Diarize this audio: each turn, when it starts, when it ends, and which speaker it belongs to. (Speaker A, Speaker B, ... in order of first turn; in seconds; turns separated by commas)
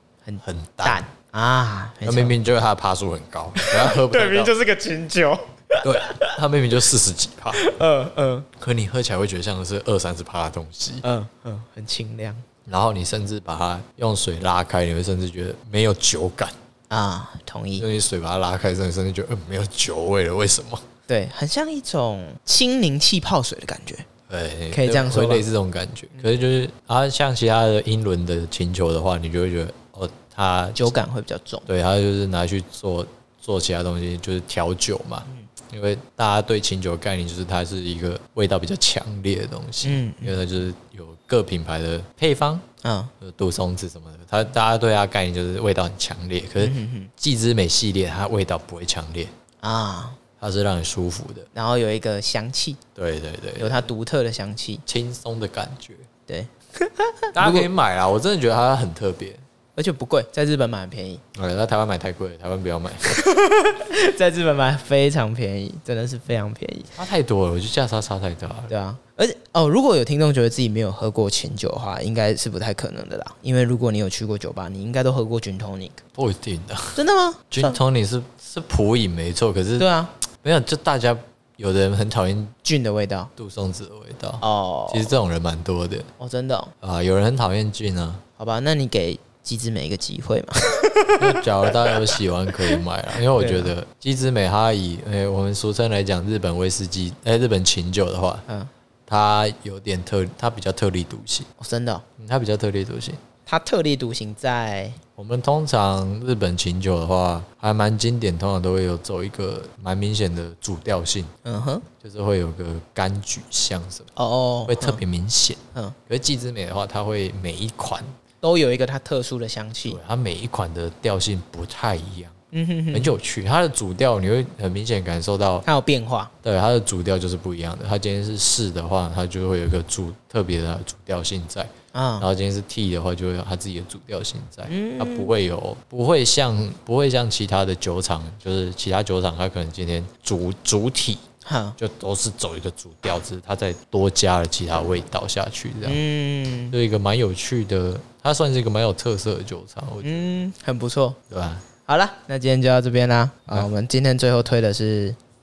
Speaker A: 0.2-2.4, Speaker B: 0.4-1.0, Speaker B: 2.0-4.5, Speaker A: 3.5-6.4, Speaker B: 5.8-7.6, Speaker A: 7.6-8.5, Speaker B: 8.6-11.1, Speaker A: 11.0-12.4, Speaker B: 12.7-16.6, Speaker A: 16.9-17.9, Speaker B: 17.8-20.9, Speaker A: 21.1-24.1, Speaker B: 24.3-31.0, Speaker A: 24.7-25.5, Speaker A: 30.8-31.7, Speaker B: 31.7-42.6, Speaker A: 39.8-40.4, Speaker A: 42.8-43.1, Speaker B: 43.2-49.3, Speaker A: 46.6-47.1, Speaker A: 49.6-50.2, Speaker B: 50.4-51.5, Speaker A: 51.5-52.8, Speaker B: 53.0-53.8, Speaker A: 53.6-54.8, Speaker B: 54.9-56.1, Speaker A: 56.3-57.7, Speaker B: 57.3-59.4, Speaker A: 59.8-61.2, Speaker B: 61.4-63.2, Speaker A: 63.1-66.9, Speaker B: 67.0-68.7, Speaker A: 68.7-76.0, Speaker B: 76.2-79.9, Speaker A: 77.0-77.8, Speaker A: 79.8-80.1, Speaker B: 80.4-82.6, Speaker A: 82.6-83.3, Speaker B: 83.4-86.1, Speaker A: 84.4-85.1, Speaker A: 86.2-86.7, Speaker B: 86.8-88.2, Speaker A: 88.4-91.4, Speaker B: 91.2-98.5, Speaker A: 93.4-93.7, Speaker B: 99.1-101.5, Speaker A: 101.6-102.0, Speaker B: 102.2-103.2, Speaker A: 103.5-105.0, Speaker B: 105.2-111.3, Speaker A: 111.5-111.9, Speaker B: 112.0-114.1, Speaker A: 114.2-115.0, Speaker B: 114.7-118.1, Speaker A: 118.4-120.0, Speaker B: 119.8-122.4, Speaker A: 122.5-123.2, Speaker B: 122.9-125.7, Speaker A: 125.7-126.3, Speaker B: 126.4-141.2, Speaker A: 131.9-132.3, Speaker A: 134.7-135.3, Speaker A: 141.4-141.8, Speaker B: 141.8-146.0, Speaker A: 145.8-146.8, Speaker B: 146.7-150.3, Speaker A: 150.0-151.2, Speaker B: 151.3-151.7, Speaker A: 151.8-155.2